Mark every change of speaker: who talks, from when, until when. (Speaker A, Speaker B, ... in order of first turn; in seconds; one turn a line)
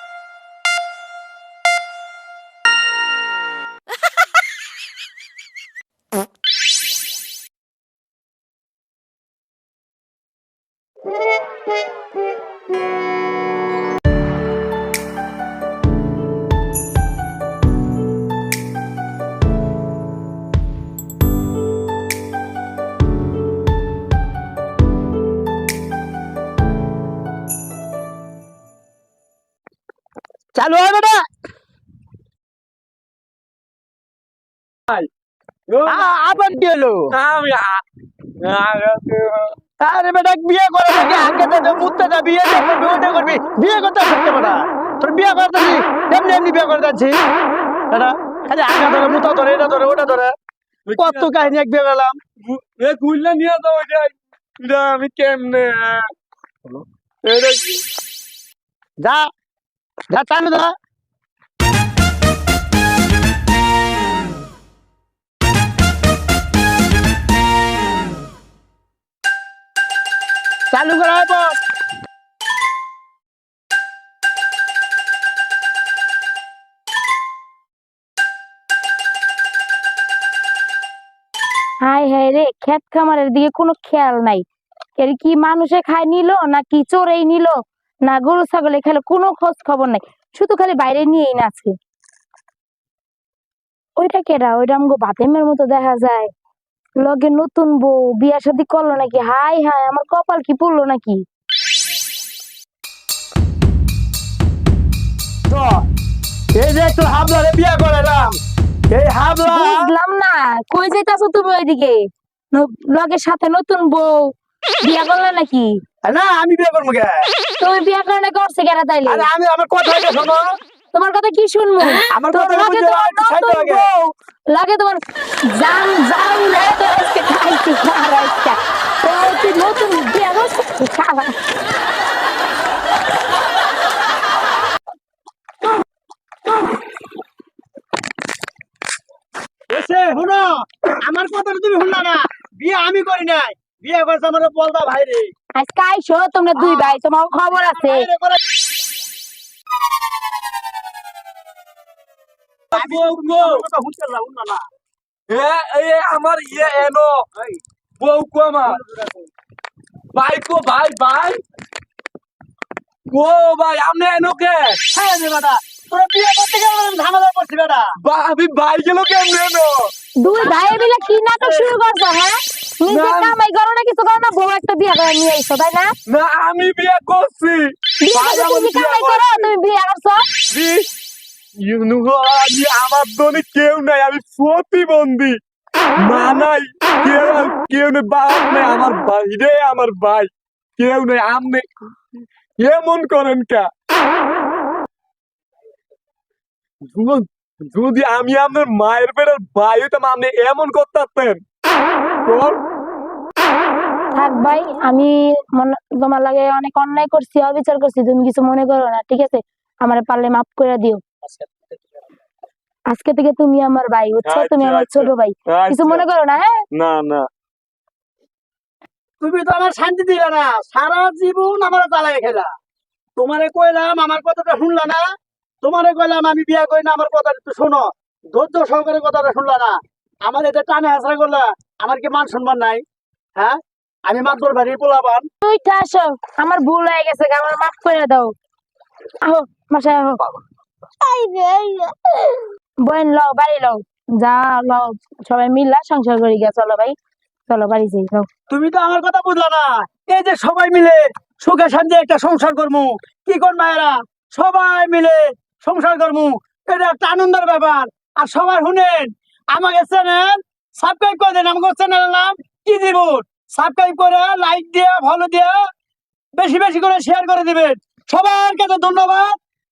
Speaker A: 30.6-31.3
Speaker B: 35.7-36.1
Speaker A: 35.9-37.1
Speaker B: 37.1-37.9
Speaker B: 38.4-39.6
Speaker A: 39.8-47.2
Speaker A: 47.9-50.3
Speaker B: 50.9-51.5
Speaker A: 50.9-52.2
Speaker B: 52.4-56.1
Speaker B: 56.7-57.8
Speaker A: 59.0-59.3
Speaker A: 60.1-60.8
Speaker A: 70.7-71.6
Speaker C: 81.8-84.5
Speaker C: 85.0-91.8
Speaker C: 94.0-96.3
Speaker C: 97.0-101.3
Speaker A: 105.5-105.9
Speaker A: 106.5-108.4
Speaker A: 108.9-109.9
Speaker C: 109.5-115.8
Speaker A: 116.0-117.3
Speaker C: 117.6-119.3
Speaker A: 119.1-120.5
Speaker C: 120.9-131.4
Speaker A: 122.1-123.9
Speaker A: 139.7-145.3
Speaker C: 145.6-148.1
Speaker A: 146.6-147.0
Speaker A: 147.5-148.4
Speaker B: 152.7-153.6
Speaker A: 152.7-154.7
Speaker B: 155.3-157.3
Speaker B: 158.0-158.8
Speaker A: 158.7-159.1
Speaker B: 160.1-161.4
Speaker B: 163.1-164.8
Speaker A: 164.9-167.9
Speaker B: 168.0-169.9
Speaker C: 170.2-175.9
Speaker A: 170.4-171.7
Speaker B: 172.9-173.3
Speaker B: 176.1-179.5
Speaker C: 178.0-180.3
Speaker B: 180.5-180.9
Speaker B: 181.6-185.4
Speaker B: 186.0-191.7
Speaker B: 192.6-193.7
Speaker B: 196.9-201.4
Speaker B: 202.3-202.6
Speaker C: 204.1-211.0
Speaker A: 211.3-211.6
Speaker C: 212.9-216.6
Speaker B: 214.2-216.1
Speaker B: 216.7-217.3
Speaker A: 219.2-222.5
Speaker A: 223.2-225.1
Speaker A: 225.6-232.8
Speaker A: 233.4-235.3
Speaker C: 235.4-238.3
Speaker C: 239.2-240.2
Speaker C: 241.0-247.0
Speaker C: 247.5-248.3
Speaker A: 248.5-265.6
Speaker A: 266.4-269.4